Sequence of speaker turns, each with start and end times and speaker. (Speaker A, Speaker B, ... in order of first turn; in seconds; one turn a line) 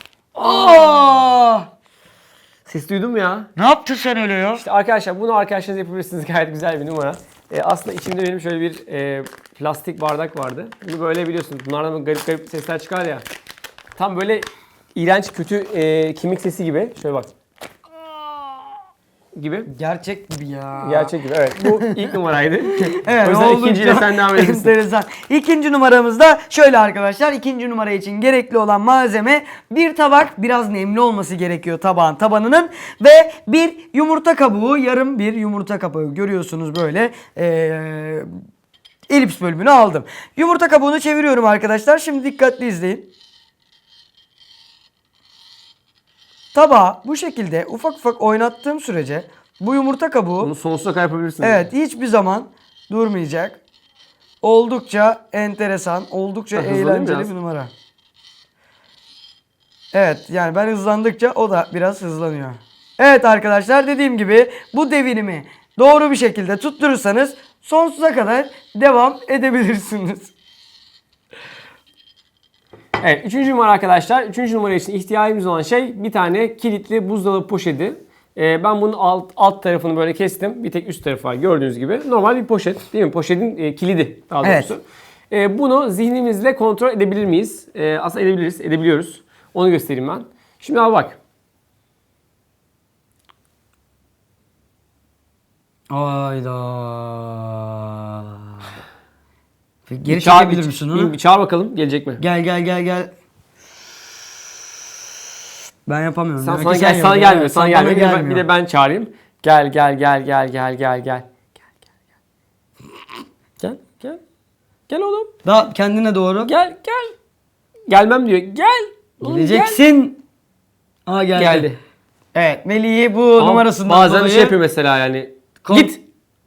Speaker A: 0.3-1.1
Speaker B: 0.4-1.7
Speaker A: 2.7-3.5
Speaker B: 3.6-4.6
Speaker A: 4.5-13.2
Speaker A: 14.0-17.3
Speaker A: 19.3-19.7
Speaker B: 19.7-21.1
Speaker A: 20.8-24.7
Speaker B: 21.6-22.0
Speaker B: 22.9-38.3
Speaker B: 39.1-43.1
Speaker B: 46.5-50.5
Speaker A: 50.4-51.7
Speaker B: 51.4-53.6
Speaker B: 54.4-57.7
Speaker A: 56.5-57.3
Speaker B: 59.9-70.3
Speaker A: 73.0-91.2
Speaker B: 84.4-84.7
Speaker B: 95.9-98.6
Speaker B: 99.9-101.1
Speaker A: 100.1-102.2
Speaker B: 102.2-103.1
Speaker B: 105.9-108.4
Speaker A: 106.4-111.3
Speaker A: 113.6-114.2
Speaker A: 114.9-115.3
Speaker B: 115.4-116.5
Speaker A: 116.4-117.1
Speaker A: 117.9-119.8
Speaker B: 119.2-120.2
Speaker B: 121.0-121.7
Speaker A: 121.3-121.8
Speaker B: 122.3-124.5
Speaker A: 123.4-126.0
Speaker B: 125.6-126.0